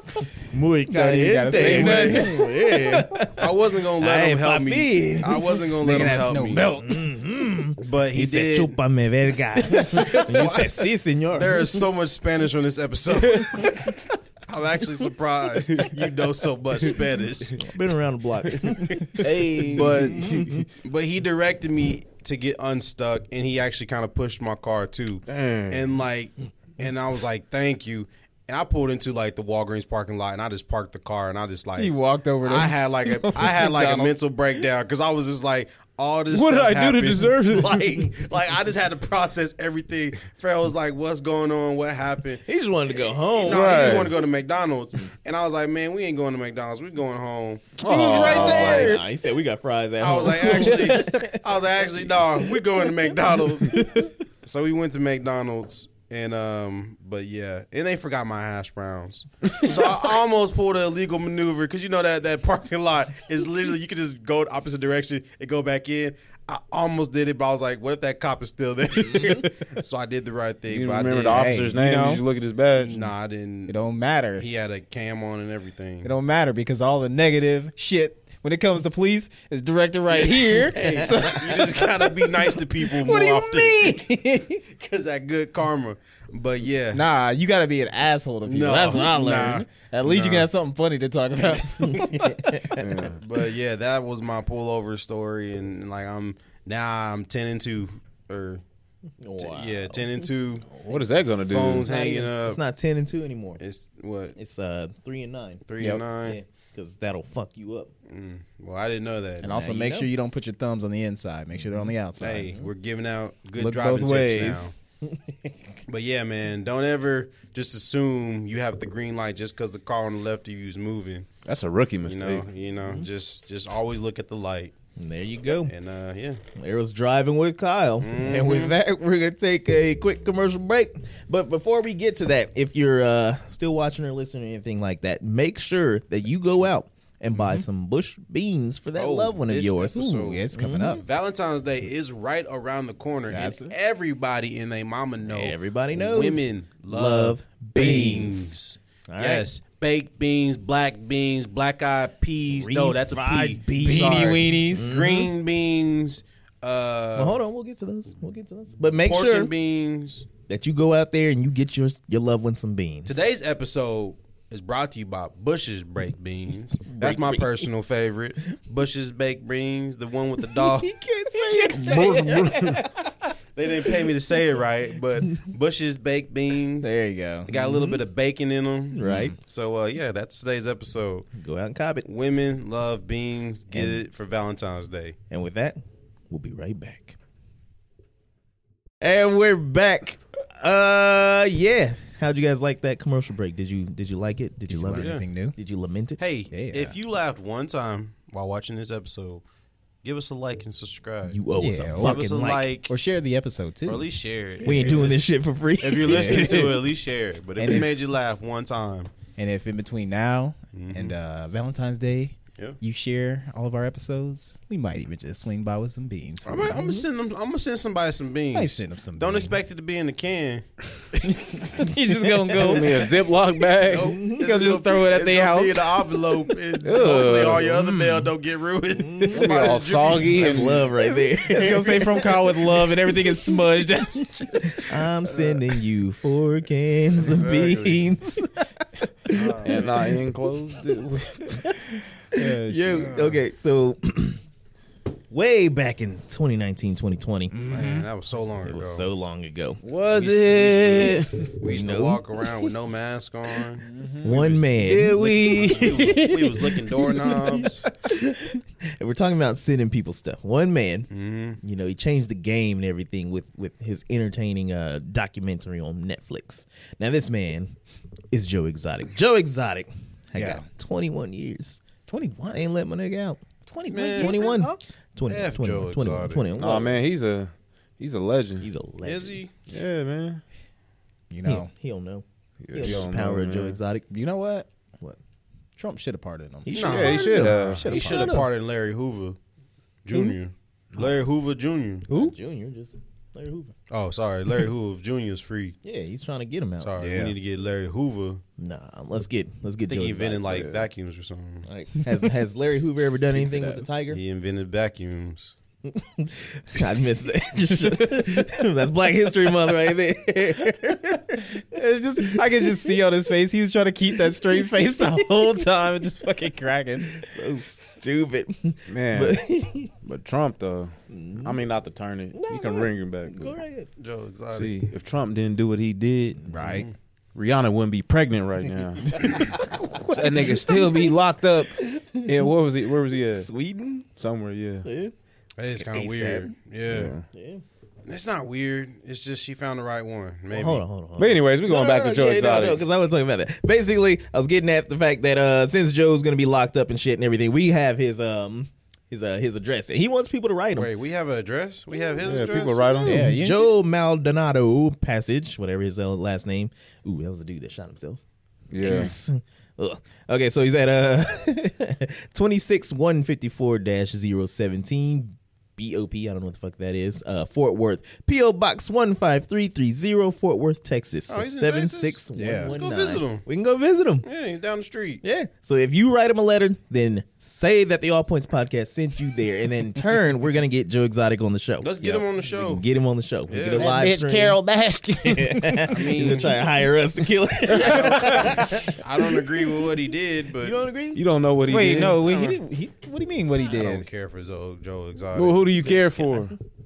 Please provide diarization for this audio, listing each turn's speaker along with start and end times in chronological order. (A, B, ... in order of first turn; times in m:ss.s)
0:00.4-0:05.7 A
0:00.9-0:02.9 B
0:01.5-0:02.4 C
0:03.3-0:06.7 C
0:05.8-0:06.9 B
0:06.6-0:11.9 A
0:07.8-0:08.8 C
0:09.9-0:10.2 B
0:09.9-0:10.8 C
0:11.3-0:17.7 C
0:17.6-0:20.6 A
0:19.2-0:31.9 C
0:19.2-0:19.8 B
0:25.3-0:25.9 D
0:31.8-0:34.1 B
0:32.4-0:42.4 C
0:36.3-0:38.1 D
0:42.4-0:44.1 A
0:43.3-0:49.0 C
0:43.4-0:44.2 D
0:47.8-0:48.8 D
0:47.8-0:49.0 B
0:48.0-0:51.4 A
0:50.0-1:11.5 C
0:50.4-0:51.1 B
1:09.1-1:09.4 A
1:10.7-1:13.1 D
1:11.2-1:12.2 B
1:12.7-1:13.8 C
1:13.7-1:14.4 B
1:14.4-1:16.1 C
1:16.0-1:22.3 B
1:20.3-1:27.0 C
1:20.7-1:21.2 A
1:22.8-1:24.6 B
1:26.9-1:32.8 B
1:28.4-1:30.5 C
1:31.9-1:32.2 A
1:32.7-1:33.2 D
1:33.1-1:38.6 C
1:39.2-1:41.0 A
1:39.4-1:40.7 C
1:40.8-1:41.9 D
1:41.5-1:42.6 C
1:41.8-1:43.6 A
1:43.6-1:44.4 C
1:44.4-1:47.9 A
1:45.7-1:46.4 C
1:48.1-1:49.5 C
1:49.4-1:52.5 B
1:49.4-1:50.1 A
1:52.2-1:54.7 C
1:53.5-1:54.7 B
1:55.9-2:01.3 C
2:01.4-2:02.5 D
2:02.0-2:04.7 C
2:02.8-2:03.1 A
2:05.0-2:05.7 A
2:05.6-2:06.4 C
2:06.6-2:21.0 A
2:08.0-2:08.8 C
2:17.3-2:17.6 B
2:18.9-2:20.4 C
2:20.0-2:21.0 B
2:20.9-2:37.4 C
2:23.3-2:23.7 B
2:25.2-2:28.5 A
2:29.1-2:29.5 A
2:32.5-2:35.3 A
2:33.8-2:34.9 B
2:37.2-2:39.5 A
2:39.0-2:40.2 C
2:40.5-2:43.2 A
2:43.0-2:50.9 C
2:46.9-2:47.7 A
2:50.4-2:53.1 A
2:51.3-2:52.2 B
2:51.7-2:52.8 D
2:53.6-3:01.3 C
2:56.8-2:57.5 B
2:57.5-2:58.0 A
2:58.9-2:59.4 A
3:01.4-3:02.1 A
3:02.0-3:05.2 C
3:03.7-3:04.0 A
3:05.3-3:07.2 A
3:09.0-3:16.2 A
3:14.7-3:15.6 B
3:14.9-3:15.2 C
3:16.2-3:19.4 C
3:16.5-3:16.9 B
3:20.0-3:21.4 C
3:21.3-3:22.7 A
3:21.6-3:22.2 B
3:21.9-3:22.9 C
3:22.9-3:24.0 B
3:23.8-3:29.1 C
3:24.6-3:25.0 B
3:24.6-3:26.8 A
3:26.0-3:26.7 B
3:29.4-3:37.0 B
3:30.7-3:31.1 C
3:36.4-3:40.6 C
3:38.5-3:39.6 B
3:41.2-3:43.1 B
3:42.5-3:44.2 D
3:43.8-3:50.7 C
3:44.0-3:44.3 A
3:44.4-3:46.1 B
3:46.8-3:48.3 D
3:49.0-3:49.5 A
3:49.3-3:50.9 D
3:50.2-3:53.6 A
3:51.0-3:54.9 B
3:54.8-3:58.6 A
3:57.3-3:58.0 C
3:59.2-3:59.9 A
3:59.3-3:59.8 C
3:59.6-4:01.7 D
4:02.3-4:03.4 B
4:02.3-4:04.4 A
4:02.9-4:03.3 C
4:05.3-4:07.5 A
4:07.5-4:08.1 B
4:07.7-4:09.0 C
4:08.6-4:09.8 A
4:09.8-4:11.5 D
4:10.1-4:17.9 C
4:11.6-4:12.7 A
4:13.8-4:14.3 B
4:14.2-4:21.1 A
4:14.8-4:16.1 D
4:21.1-4:21.6 C
4:21.6-4:27.8 A
4:28.3-4:31.8 A
4:30.3-4:30.6 B
4:32.1-4:32.6 B
4:32.5-4:33.4 A
4:33.7-4:34.8 B
4:33.9-4:34.5 C
4:34.0-4:37.0 A
4:35.3-4:36.5 C
4:36.6-4:38.7 D
4:38.6-4:39.4 A
4:39.0-4:39.5 C
4:39.7-4:40.4 D
4:41.3-4:41.7 B
4:41.4-4:44.0 A
4:42.6-4:43.8 D
4:44.1-4:44.7 B
4:45.8-4:48.4 B
4:46.6-4:48.5 A
4:46.7-4:47.3 C
4:46.8-4:47.9 D
4:47.8-4:49.4 C
4:50.0-4:52.1 C
4:52.1-4:53.7 A
4:52.1-4:52.3 B
4:53.9-4:55.8 C
4:55.8-4:57.2 A
4:56.8-4:58.4 C
4:57.0-4:57.3 B
4:58.6-5:00.8 A
4:59.9-5:01.7 C
5:01.6-5:04.2 A
5:03.3-5:03.8 D
5:04.1-5:05.5 C
5:05.9-5:11.5 A
5:11.4-5:17.3 B
5:14.6-5:15.6 A
5:17.0-5:19.9 A
5:18.9-5:19.4 D
5:20.0-5:23.6 D
5:21.1-5:21.6 A
5:22.3-5:23.9 A
5:24.0-5:24.7 C
5:24.5-5:26.4 D
5:26.4-5:26.9 B
5:26.6-5:26.9 C
5:27.3-5:29.5 D
5:29.1-5:30.8 B
5:30.1-5:33.5 D
5:31.9-5:32.3 A
5:33.3-5:34.0 A
5:34.2-5:34.9 D
5:34.8-5:35.1 A
5:35.6-5:37.1 C
5:35.8-5:36.5 A
5:36.9-5:37.2 D
5:37.3-5:37.6 A
5:38.0-5:40.8 C
5:40.5-5:50.9 A
5:41.2-5:42.8 D
5:50.7-5:53.1 C
5:51.9-5:52.5 A
5:52.2-5:53.3 D
5:53.0-5:58.2 A
5:53.0-5:53.7 B
5:58.7-5:59.1 D
5:58.8-6:14.3 A
6:11.3-6:13.4 C
6:12.3-6:12.7 B
6:14.2-6:15.2 C
6:15.2-6:24.6 A
6:21.8-6:22.8 C
6:23.5-6:23.9 C
6:23.8-6:25.6 D
6:23.8-6:25.0 B
6:25.2-6:30.1 A
6:25.8-6:26.6 C
6:27.7-6:30.8 C
6:30.6-6:31.2 A
6:31.1-6:32.3 D
6:31.7-6:34.0 B
6:31.9-6:32.6 C
6:33.7-6:35.7 C
6:35.3-6:36.5 D
6:35.8-6:36.5 A